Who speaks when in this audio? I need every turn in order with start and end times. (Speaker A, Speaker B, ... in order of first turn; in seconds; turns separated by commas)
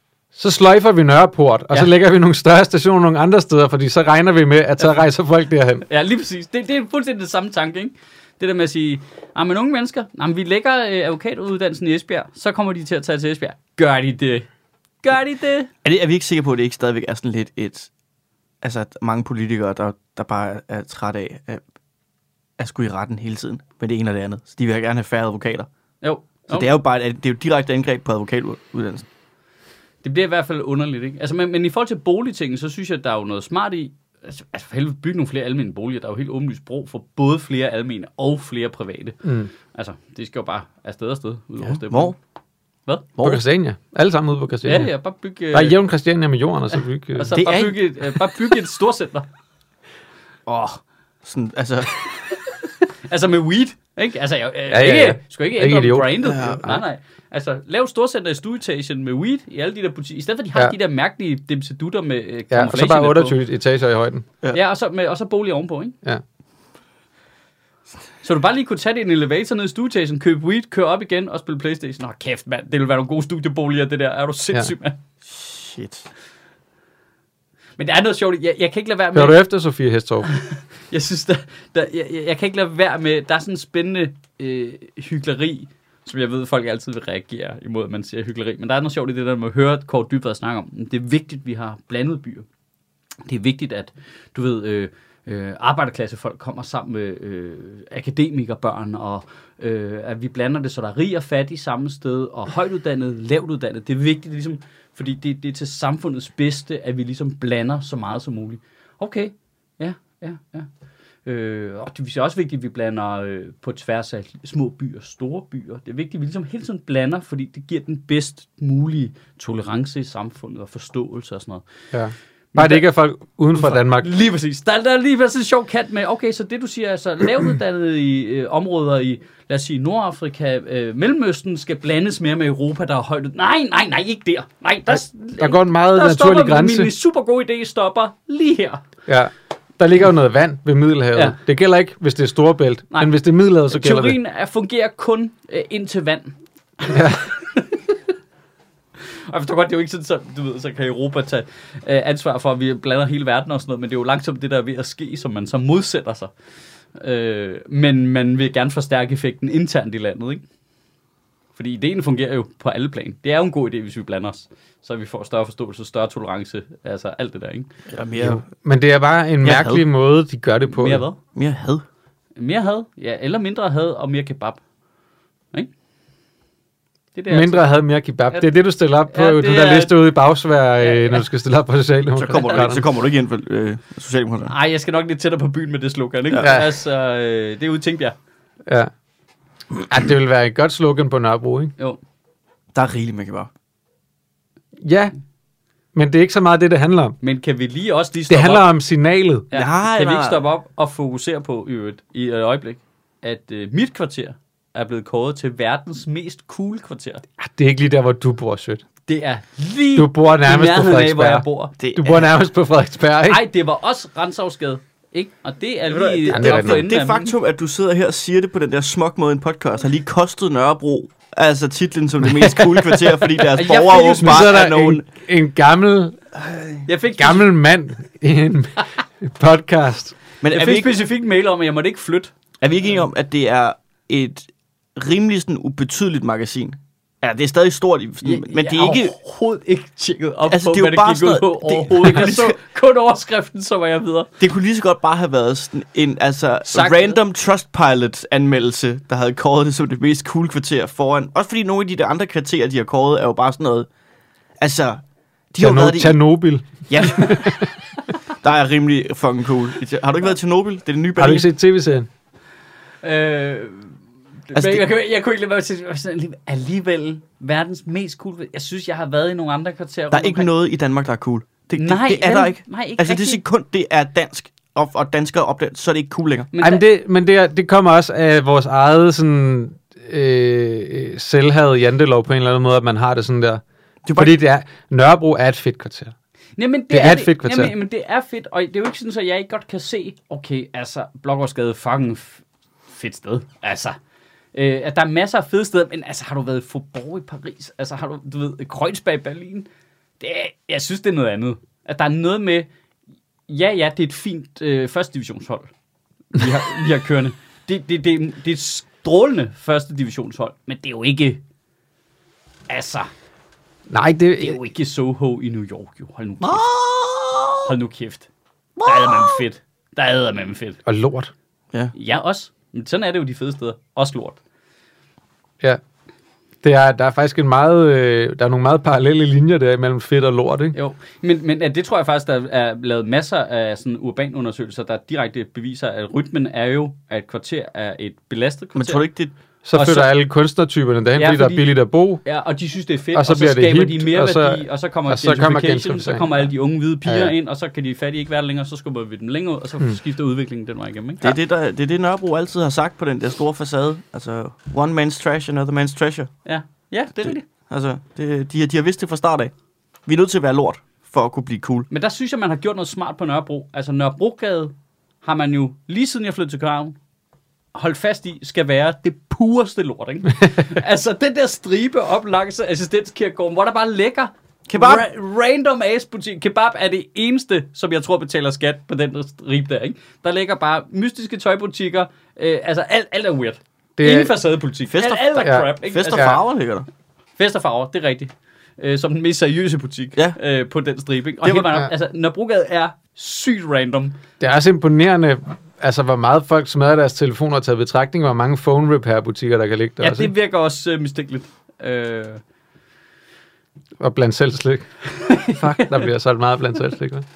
Speaker A: 0.3-5.8, Speaker B: 5.9-14.5, Speaker B: 15.0-15.7, Speaker C: 15.8-17.9, Speaker C: 18.6-21.6, Speaker C: 22.6-25.7, Speaker B: 26.0-26.7, Speaker C: 26.5-29.1, Speaker B: 30.0-42.1, Speaker A: 39.2-39.5, Speaker C: 41.6-42.1, Speaker C: 43.1-43.4, Speaker A: 43.2-44.9, Speaker B: 44.6-45.8, Speaker A: 45.5-47.4, Speaker B: 47.2-49.2, Speaker C: 47.3-47.8, Speaker C: 50.5-52.0, Speaker B: 53.1-63.4, Speaker A: 54.7-56.8, Speaker C: 56.2-56.7, Speaker A: 62.5-64.2, Speaker B: 64.5-66.0, Speaker B: 68.2-75.0, Speaker C: 75.2-76.1, Speaker B: 77.8-79.4, Speaker A: 79.1-80.3, Speaker B: 80.3-92.5, Speaker B: 93.2-110.7, Speaker B: 111.2-121.6, Speaker A: 121.9-124.1, Speaker B: 122.5-122.8, Speaker B: 123.5-138.8, Speaker A: 134.9-136.9, Speaker A: 139.1-144.2, Speaker B: 143.7-147.8, Speaker A: 146.9-147.2, Speaker B: 149.3-156.3, Speaker B: 156.9-160.4, Speaker B: 161.6-167.7, Speaker C: 167.9-168.4, Speaker A: 168.2-171.0, Speaker C: 169.4-169.8, Speaker B: 170.7-171.2, Speaker C: 171.3-171.8, Speaker B: 172.4-174.6, Speaker B: 177.1-177.7, Speaker A: 177.3-182.8, Speaker B: 179.1-180.0, Speaker B: 180.8-181.2, Speaker C: 182.2-184.5, Speaker B: 184.5-188.2, Speaker A: 186.4-186.7, Speaker A: 188.7-188.9, Speaker A: 189.9-191.7, Speaker C: 192.7-193.5, Speaker A: 194.8-195.1, Speaker A: 195.9-197.2, Speaker B: 197.2-198.7, Speaker A: 198.3-199.4, Speaker B: 199.5-207.2, Speaker C: 199.5-200.4, Speaker A: 207.4-208.8, Speaker B: 209.1-211.7, Speaker A: 209.9-213.4, Speaker C: 211.8-212.3, Speaker B: 213.3-217.3, Speaker C: 215.9-225.1, Speaker A: 216.3-216.8, Speaker A: 222.2-223.2, Speaker B: 223.5-224.6, Speaker A: 224.2-226.2, Speaker B: 226.8-227.5, Speaker A: 227.2-230.2, Speaker C: 230.4-230.9, Speaker B: 230.5-232.3, Speaker C: 232.6-239.2, Speaker B: 238.2-244.3, Speaker C: 240.5-242.6, Speaker C: 244.4-253.9, Speaker B: 246.7-247.2, Speaker C: 254.6-255.0, Speaker C: 255.5-256.2, Speaker A: 255.6-257.7, Speaker C: 256.9-257.6, Speaker C: 258.4-261.5, Speaker A: 261.2-262.1, Speaker B: 263.0-263.9, Speaker B: 264.5-270.5, Speaker C: 264.5-264.8, Speaker C: 270.1-276.5, Speaker B: 271.7-273.4, Speaker B: 276.5-276.8, Speaker A: 276.6-283.6, Speaker C: 284.0-284.4, Speaker A: 284.1-286.1, Speaker B: 286.6-294.0, Speaker A: 286.9-287.7, Speaker B: 294.5-299.7, Speaker B: 300.2-302.7, Speaker B: 303.5-305.7, Speaker B: 306.3-311.4, Speaker B: 312.7-313.1, Speaker A: 313.9-314.6, Speaker B: 314.4-316.6, Speaker C: 316.4-317.7, Speaker B: 317.6-318.3, Speaker C: 318.8-319.4, Speaker B: 318.8-320.8, Speaker A: 320.9-321.3, Speaker B: 321.9-324.4, Speaker A: 326.6-330.8, Speaker B: 330.7-339.1, Speaker C: 338.8-339.3, Speaker A: 339.6-342.2, Speaker B: 339.7-340.1, Speaker B: 341.1-341.7, Speaker B: 342.2-351.4, Speaker A: 343.1-346.5, Speaker A: 347.0-347.3, Speaker C: 351.2-356.3, Speaker B: 356.4-357.4, Speaker C: 357.2-359.5, Speaker C: 360.1-361.9, Speaker B: 361.9-367.0, Speaker B: 367.7-386.4, Speaker C: 374.7-375.0, Speaker A: 384.0-384.3, Speaker C: 384.9-386.9, Speaker A: 385.4-386.4, Speaker B: 387.4-394.2, Speaker C: 391.4-391.8, Speaker A: 394.4-400.3, Speaker B: 400.0-402.4, Speaker A: 404.0-407.2, Speaker B: 405.1-405.9